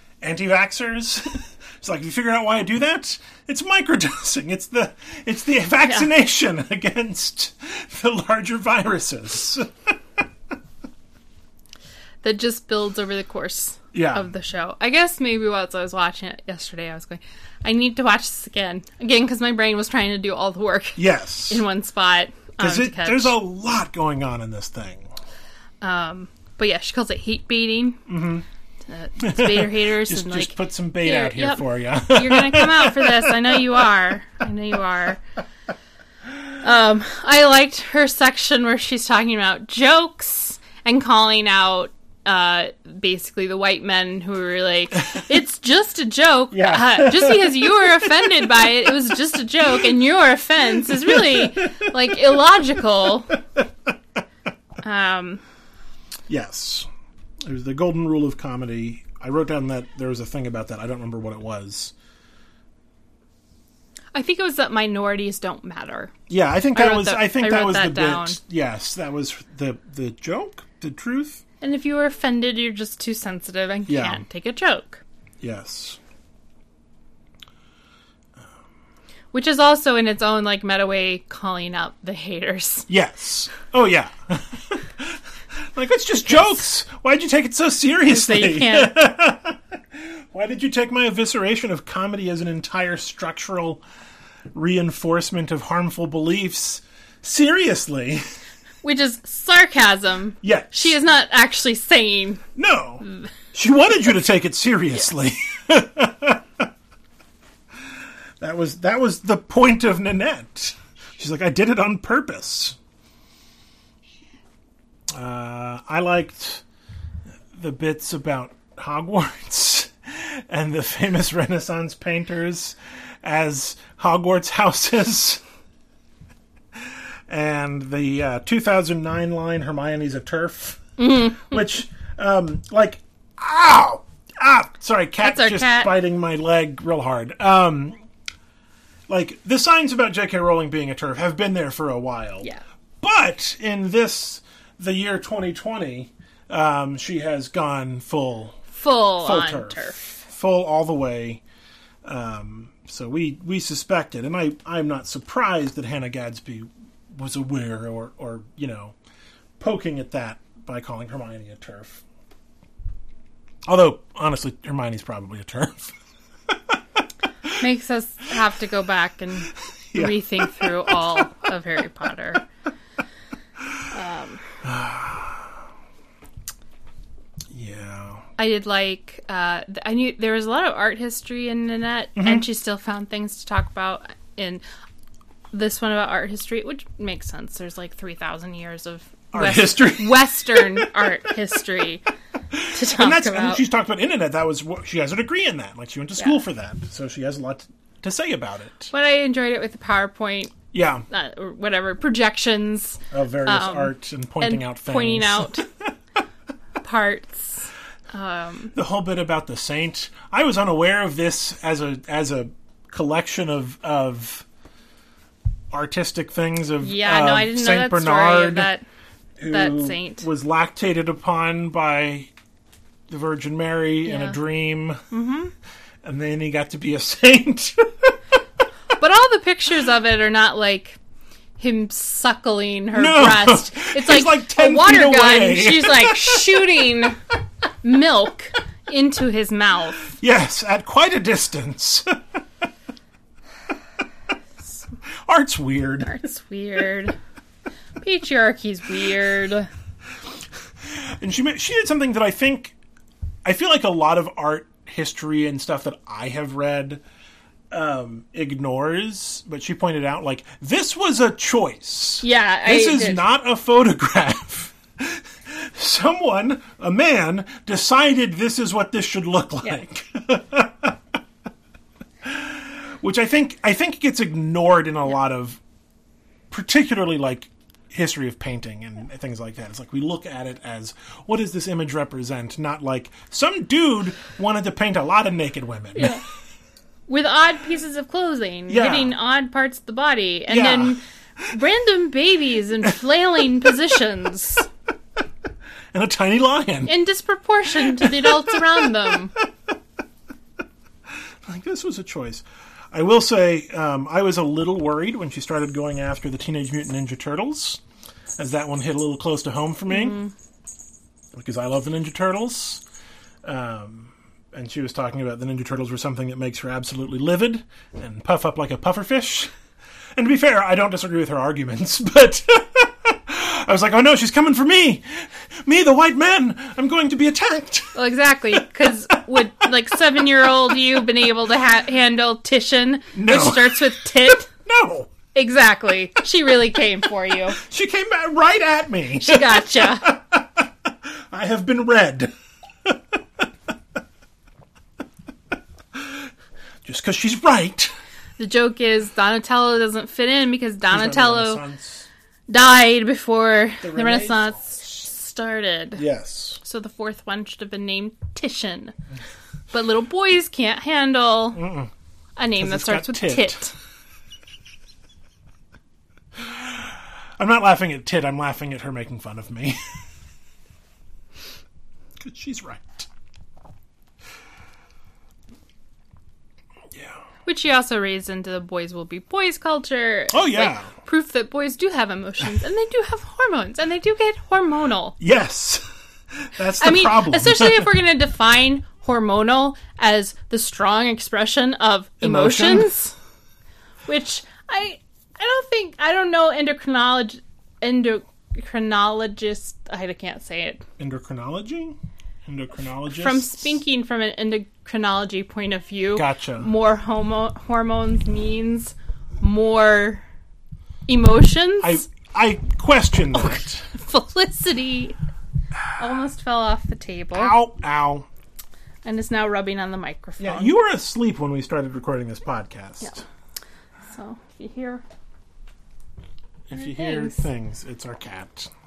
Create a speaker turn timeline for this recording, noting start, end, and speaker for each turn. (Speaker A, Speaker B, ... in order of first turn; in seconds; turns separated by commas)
Speaker A: 0.2-9.9, Speaker B: 12.2-23.3, Speaker A: 13.9-14.3, Speaker A: 21.0-21.6, Speaker A: 22.6-25.1, Speaker B: 25.8-28.0, Speaker A: 28.1-28.4, Speaker B: 28.9-35.2, Speaker A: 29.2-33.8, Speaker B: 36.6-53.3, Speaker A: 46.5-48.9, Speaker A: 50.8-52.2, Speaker B: 54.8-55.4, Speaker A: 56.3-56.9, Speaker A: 57.4-61.9, Speaker B: 64.1-66.1, Speaker A: 66.3-71.4, Speaker B: 66.7-68.4, Speaker B: 71.6-75.0, Speaker A: 73.9-74.2, Speaker A: 75.4-76.0, Speaker B: 79.3-82.9, Speaker A: 82.9-93.8, Speaker B: 88.1-88.9, Speaker A: 94.5-98.2, Speaker B: 98.8-102.4, Speaker A: 100.4-100.9, Speaker A: 102.5-106.7, Speaker A: 108.4-112.8, Speaker A: 115.1-116.6, Speaker A: 117.5-125.4, Speaker A: 127.3-138.0, Speaker B: 131.0-131.7, Speaker B: 135.2-136.0, Speaker A: 139.1-142.5, Speaker A: 143.0-148.6, Speaker B: 148.7-150.0, Speaker A: 149.2-151.4, Speaker A: 152.0-158.9, Speaker A: 159.6-162.0, Speaker A: 163.7-165.9, Speaker B: 167.6-172.4, Speaker A: 169.9-171.2, Speaker B: 173.9-174.4, Speaker A: 174.6-175.6, Speaker A: 177.5-178.2, Speaker B: 178.4-184.6, Speaker A: 182.2-182.4, Speaker B: 185.5-192.0, Speaker A: 189.3-190.9, Speaker A: 192.5-198.9, Speaker B: 192.7-193.6, Speaker B: 198.9-205.7, Speaker A: 200.7-201.1, Speaker A: 203.1-205.9, Speaker B: 206.8-208.7, Speaker A: 208.7-214.4, Speaker A: 215.7-218.7, Speaker B: 216.8-218.8, Speaker A: 219.4-222.3, Speaker B: 219.5-220.2, Speaker A: 223.1-225.0, Speaker B: 224.0-224.4, Speaker B: 225.1-225.5, Speaker A: 226.0-228.2, Speaker B: 229.0-231.0, Speaker B: 231.6-237.2, Speaker A: 232.9-236.7, Speaker B: 237.8-240.1, Speaker A: 240.1-242.1, Speaker A: 245.2-246.2, Speaker B: 246.0-247.2, Speaker B: 248.0-249.7, Speaker A: 250.9-252.8, Speaker A: 253.4-257.0, Speaker A: 257.7-271.0, Speaker B: 262.2-263.2, Speaker A: 272.2-275.6, Speaker A: 276.5-286.2, Speaker B: 285.9-286.2, Speaker B: 287.1-294.7, Speaker A: 288.7-289.1, Speaker A: 290.5-291.5, Speaker A: 295.9-296.9, Speaker B: 296.9-299.3, Speaker A: 297.9-298.6, Speaker A: 301.4-307.8, Speaker A: 308.4-310.2, Speaker B: 309.9-310.3, Speaker A: 311.3-312.8, Speaker A: 313.4-319.5, Speaker A: 320.2-328.0, Speaker B: 327.9-334.5, Speaker A: 328.6-329.2, Speaker A: 333.1-335.1, Speaker B: 335.3-337.6, Speaker A: 337.5-340.6, Speaker B: 339.2-340.1, Speaker A: 341.3-342.3, Speaker A: 345.9-346.2, Speaker A: 346.8-347.9, Speaker B: 348.4-351.6, Speaker A: 350.9-352.1, Speaker B: 352.5-356.0, Speaker A: 353.8-354.8, Speaker A: 355.9-356.6, Speaker B: 356.6-358.9, Speaker B: 359.7-361.6, Speaker A: 361.5-361.9, Speaker B: 362.4-363.7, Speaker A: 362.6-363.7, Speaker A: 366.4-369.8, Speaker A: 372.2-373.1, Speaker B: 377.4-385.2, Speaker A: 380.3-380.9, Speaker A: 385.2-387.9, Speaker B: 386.8-393.1, Speaker A: 392.2-392.9, Speaker B: 394.1-400.8, Speaker A: 401.0-403.7, Speaker B: 403.1-410.2, Speaker A: 406.1-406.7, Speaker B: 411.1-412.0, Speaker A: 411.8-413.9, Speaker B: 413.3-415.2, Speaker B: 416.0-417.5, Speaker A: 417.3-418.3, Speaker B: 419.0-420.7, Speaker A: 420.4-423.2, Speaker B: 424.1-425.0, Speaker A: 426.7-428.7, Speaker B: 426.8-427.4